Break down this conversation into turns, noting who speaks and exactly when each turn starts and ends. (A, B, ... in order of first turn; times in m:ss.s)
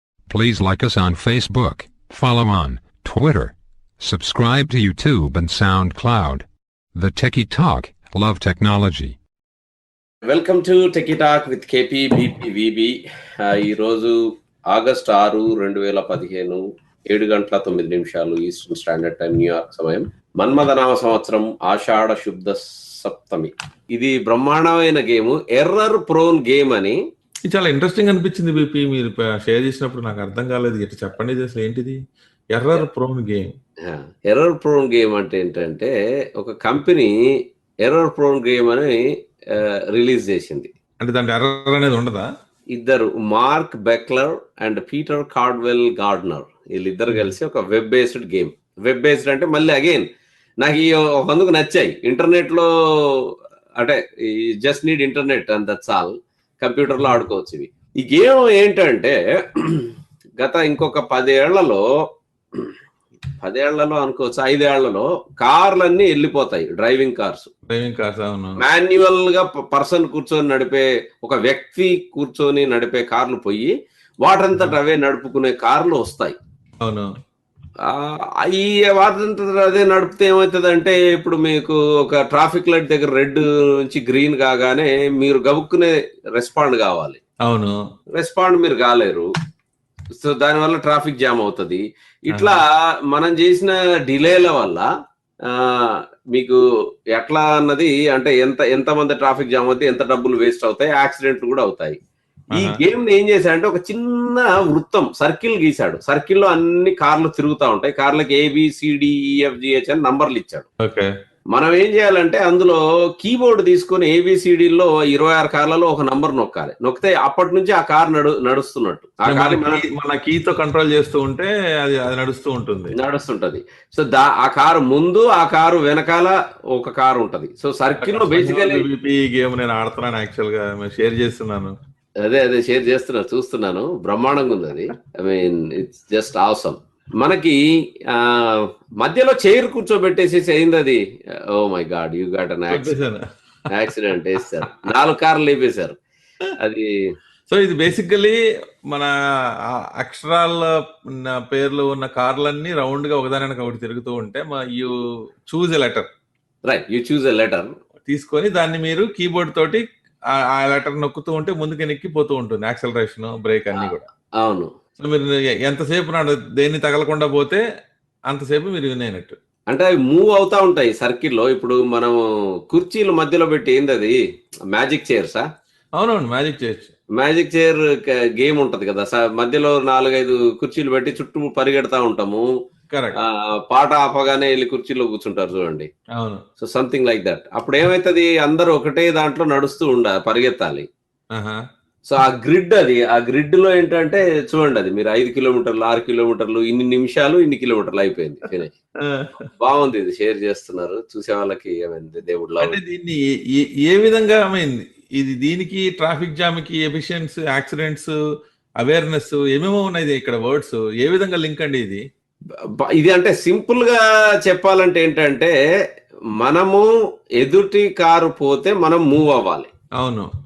0:00.3-0:09.2 A
0:10.3-0:27.0 B
0:27.5-0:32.0 C
0:32.5-0:33.5 C
0:33.8-0:37.1 B
0:37.8-0:38.9 B
0:39.5-0:40.7 B
0:41.0-0:42.3 C
0:42.7-0:50.0 B
0:50.6-0:54.0 B
0:54.6-1:01.8 B
0:57.0-0:57.2 C
1:03.4-1:07.5 B
1:07.7-1:08.6 C
1:08.6-1:13.7 B
1:14.2-1:16.4 B
1:16.8-1:17.1 C
1:17.9-1:27.2 B
1:27.4-1:27.8 C
1:28.2-1:29.3 B
1:30.2-1:34.8 B
1:32.3-1:32.6 C
1:35.5-1:35.8 B
1:37.1-1:42.0 B
1:42.5-1:50.7 B
1:50.8-1:51.1 C
1:51.5-1:59.8 B
1:59.2-2:02.9 C
2:02.9-2:08.9 B
2:08.0-2:11.7 C
2:12.2-2:17.6 B
2:18.1-2:21.0 B
2:21.6-2:22.9 B
2:22.7-2:23.2 C
2:23.7-2:26.0 B
2:26.6-2:26.9 B
2:27.5-2:28.4 C
2:29.7-2:34.9 C
2:35.5-2:36.1 C
2:36.6-2:37.7 B
2:38.1-2:39.8 C
2:40.4-2:44.0 C
2:43.7-2:44.7 B
2:45.0-2:47.6 C
2:48.3-2:49.3 C
2:49.7-2:52.2 B
2:52.7-2:54.2 B
2:54.7-2:55.4 B
2:56.0-2:56.9 C
2:57.2-3:02.5 B
3:02.9-3:03.2 C
3:03.2-3:05.9 B
3:06.2-3:06.4 C
3:06.6-3:10.9 B
3:11.3-3:11.6 C
3:12.1-3:18.7 B
3:19.6-3:22.8 B
3:22.6-3:28.1 C
3:28.8-3:32.0 C
3:32.8-3:35.5 B
3:36.4-3:36.9 B
3:37.4-3:39.7 B
3:40.0-3:40.3 C